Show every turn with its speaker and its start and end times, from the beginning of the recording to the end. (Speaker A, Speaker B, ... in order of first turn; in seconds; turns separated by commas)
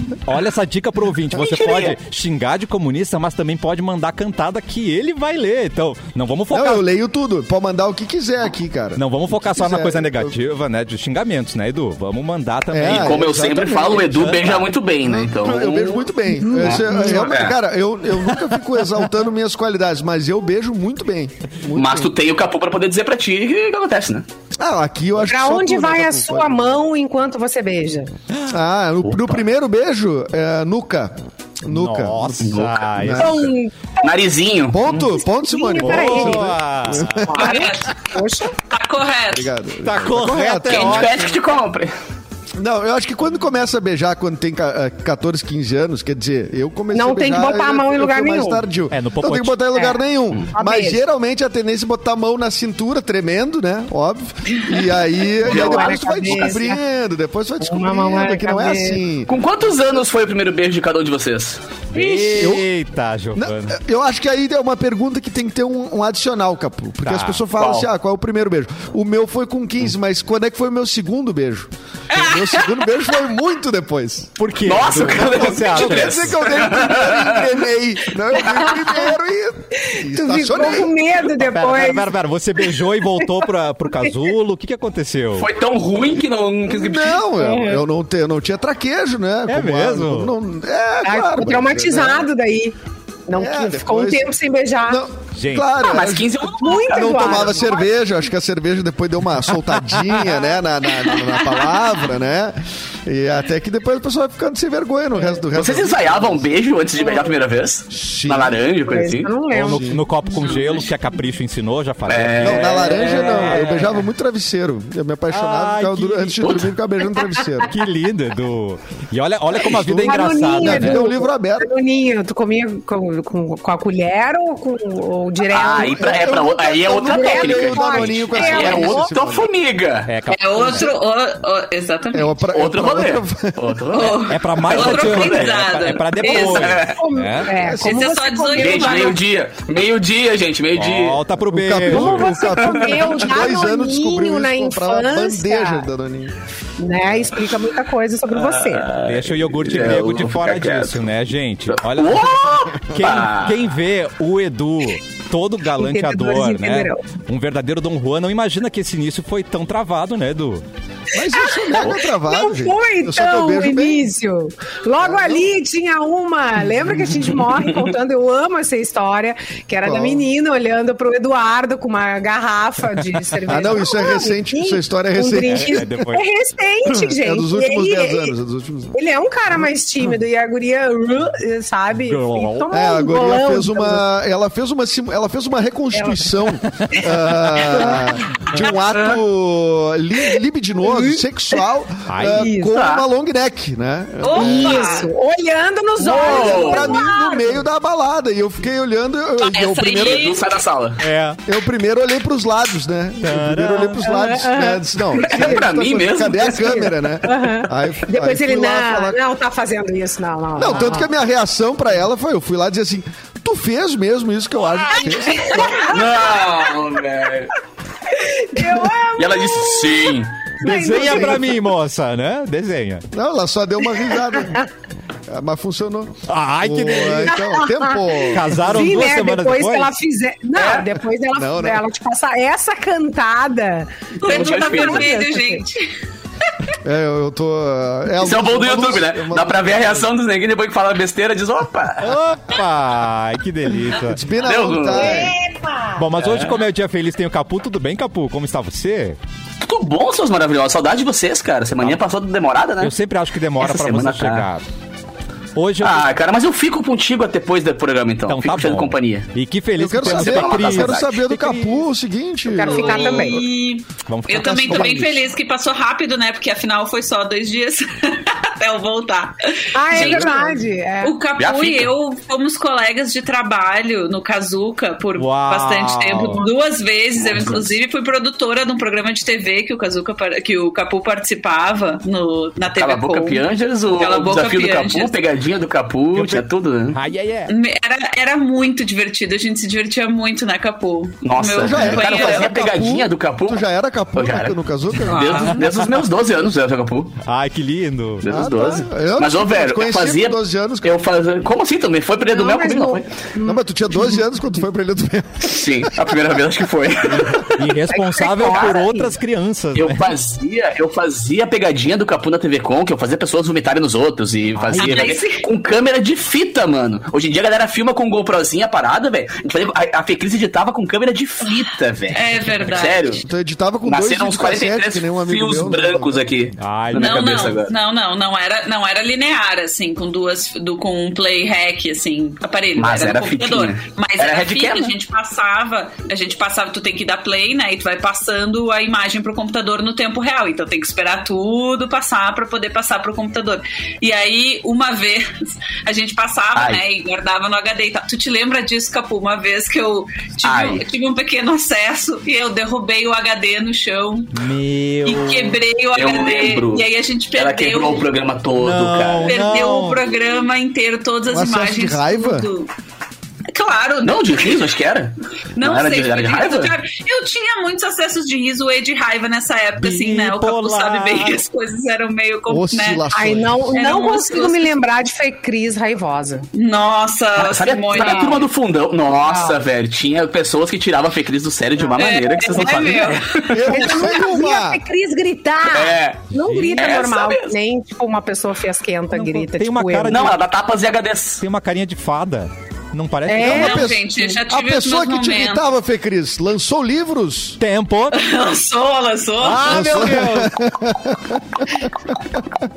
Speaker A: 0.2-6.8, Speaker B: 1.3-2.0, Speaker C: 6.5-10.3, Speaker A: 8.9-13.2, Speaker C: 12.7-22.1, Speaker B: 12.8-17.6, Speaker A: 14.1-14.5, Speaker D: 16.3-17.2, Speaker B: 21.7-24.2, Speaker C: 24.6-26.9, Speaker D: 25.2-28.1, Speaker C: 28.5-33.5, Speaker B: 29.1-29.4, Speaker A: 31.7-33.5, Speaker B: 32.4-32.8, Speaker D: 33.2-34.1, Speaker B: 34.0-35.0, Speaker C: 34.7-37.7, Speaker D: 35.0-38.5, Speaker A: 35.8-37.3, Speaker E: 37.3-38.0, Speaker E: 38.7-39.5, Speaker C: 39.3-41.4, Speaker A: 39.8-41.2, Speaker B: 40.6-41.9, Speaker C: 42.6-59.3, Speaker D: 46.9-48.6, Speaker A: 48.9-49.5, Speaker D: 49.7-50.0, Speaker D: 50.5-51.0, Speaker D: 55.4-56.8, Speaker B: 55.4-56.5, Speaker D: 57.6-59.0, Speaker B: 59.3-61.6, Speaker A: 61.9-63.8, Speaker C: 62.4-62.7, Speaker C: 63.3-74.3, Speaker A: 67.0-67.4, Speaker B: 67.5-67.9, Speaker E: 72.1-72.7, Speaker A: 74.4-76.4, Speaker B: 74.6-77.5, Speaker C: 75.2-80.9, Speaker D: 78.4-78.9, Speaker D: 79.8-82.1, Speaker A: 81.4-85.5, Speaker D: 83.1-83.4, Speaker B: 85.4-87.2, Speaker C: 86.7-92.2, Speaker D: 87.3-87.8, Speaker A: 89.5-90.3, Speaker D: 91.0-92.8, Speaker D: 93.3-95.0, Speaker C: 93.3-94.3, Speaker C: 94.9-106.5, Speaker A: 95.3-95.7, Speaker B: 95.8-97.6, Speaker D: 96.6-97.9, Speaker E: 101.1-101.8, Speaker B: 105.5-109.4, Speaker C: 107.9-108.6, Speaker D: 108.9-109.9, Speaker A: 109.5-114.0, Speaker C: 109.5-110.0, Speaker E: 110.3-110.9, Speaker B: 112.1-113.6, Speaker C: 112.4-117.8, Speaker A: 115.3-116.4, Speaker B: 116.4-116.7, Speaker A: 117.6-121.0, Speaker C: 119.6-121.7, Speaker D: 119.9-129.1, Speaker B: 125.5-130.1, Speaker C: 126.0-129.5, Speaker A: 130.1-130.9, Speaker E: 130.3-132.3, Speaker C: 132.1-133.8, Speaker B: 132.5-135.7, Speaker E: 133.9-136.8, Speaker A: 134.3-137.5, Speaker D: 136.2-139.2, Speaker B: 136.3-137.0, Speaker C: 137.5-138.1, Speaker E: 137.8-139.2, Speaker B: 138.5-141.2, Speaker A: 140.8-142.3, Speaker C: 141.5-146.3, Speaker D: 141.8-145.9, Speaker B: 142.3-143.1, Speaker D: 146.8-148.9, Speaker B: 148.3-151.1, Speaker A: 149.0-160.6, Speaker B: 151.7-153.6, Speaker D: 155.7-157.0, Speaker C: 161.1-164.0, Speaker D: 161.3-178.3, Speaker C: 165.0-165.5, Speaker C: 169.8-170.2, Speaker C: 173.5-176.0, Speaker A: 175.4-176.2, Speaker C: 176.9-179.0, Speaker D: 178.9-184.0, Speaker A: 182.0-182.7, Speaker C: 182.7-195.0, Speaker D: 185.9-186.3, Speaker D: 187.6-188.0, Speaker D: 190.8-191.6, Speaker A: 192.1-192.5, Speaker D: 192.2-192.8, Speaker B: 192.7-193.1, Speaker E: 194.2-195.1, Speaker D: 194.3-197.6, Speaker B: 196.0-197.0, Speaker C: 196.2-200.3, Speaker E: 199.4-200.4, Speaker B: 200.0-201.0, Speaker A: 201.0-201.4, Speaker C: 201.4-209.2, Speaker A: 203.2-204.0, Speaker D: 204.0-205.6, Speaker B: 205.2-207.1, Speaker D: 206.6-211.1, Speaker C: 210.6-216.1, Speaker D: 214.9-216.4, Speaker B: 215.6-217.5, Speaker D: 218.1-221.6, Speaker B: 219.2-220.5, Speaker A: 220.6-223.1, Speaker C: 220.7-221.5, Speaker C: 223.1-224.6, Speaker D: 224.4-224.7, Speaker C: 225.3-228.7, Speaker A: 226.3-227.4, Speaker D: 227.2-235.6, Speaker A: 228.3-229.9, Speaker B: 230.6-230.9, Speaker C: 231.3-231.8, Speaker E: 234.2-235.8, Speaker B: 234.2-235.1, Speaker C: 236.8-240.1, Speaker B: 238.2-242.2, Speaker A: 242.0-244.2, Speaker C: 243.9-245.3, Speaker B: 244.4-245.2, Speaker D: 244.9-246.1, Speaker A: 245.9-249.2, Speaker B: 246.2-246.6, Speaker B: 249.6-252.9, Speaker A: 252.8-254.6, Speaker B: 253.6-254.5, Speaker A: 255.5-256.1, Speaker B: 255.8-259.3, Speaker A: 258.3-261.8, Speaker C: 259.7-263.1, Speaker B: 260.0-261.1, Speaker D: 262.4-263.4, Speaker E: 262.6-270.5, Speaker A: 264.1-265.1, Speaker C: 264.6-265.1, Speaker D: 269.7-271.2, Speaker B: 269.9-270.5, Speaker E: 271.0-283.4, Speaker B: 271.4-271.9, Speaker A: 275.2-276.4, Speaker B: 277.2-277.7, Speaker B: 282.7-287.0, Speaker E: 283.9-285.2, Speaker A: 286.1-287.5, Speaker E: 287.5-292.6, Speaker B: 291.2-293.6, Speaker C: 291.6-295.5, Speaker B: 294.1-297.2, Speaker E: 295.1-295.6, Speaker A: 295.3-296.0, Speaker A: 297.2-298.2, Speaker B: 298.2-303.1, Speaker C: 298.3-301.0, Speaker D: 302.2-304.2, Speaker C: 303.4-306.1, Speaker B: 305.4-307.8, Speaker A: 307.1-310.1, Speaker D: 307.9-309.1, Speaker B: 308.4-308.8, Speaker B: 309.7-323.2, Speaker A: 314.6-315.0, Speaker E: 314.8-315.4, Speaker E: 321.4-323.2, Speaker C: 323.2-326.5, Speaker B: 323.8-327.7, Speaker A: 326.6-327.6, Speaker E: 326.9-354.3, Speaker B: 332.8-334.9, Speaker B: 346.5-346.8, Speaker B: 350.4-350.9, Speaker A: 354.3-355.6, Speaker E: 355.0-358.1, Speaker B: 355.9-359.4, Speaker A: 358.6-360.0, Speaker E: 359.2-362.7, Speaker C: 361.3-362.5, Speaker E: 363.5-364.7, Speaker B: 364.0-366.8, Speaker E: 365.6-373.1, Speaker A: 369.8-371.4, Speaker C: 372.5-373.8, Speaker D: 373.1-376.5, Speaker E: 373.7-374.7, Speaker E: 376.5-378.5, Speaker B: 377.4-383.7, Speaker D: 378.0-378.4, Speaker D: 379.2-379.6, Speaker E: 381.9-383.6, Speaker C: 383.5-384.8, Speaker D: 383.7-390.3, Speaker B: 385.7-386.2, Speaker A: 386.5-386.9, Speaker B: 386.8-387.5, Speaker A: 389.1-390.4, Speaker B: 390.0-391.4, Speaker A: 391.4-393.9, Speaker D: 393.3-394.4, Speaker C: 393.4-397.6, Speaker E: 393.4-395.6, Speaker A: 397.6-398.2, Speaker E: 398.1-400.1, Speaker A: 399.4-400.6, Speaker C: 399.6-402.4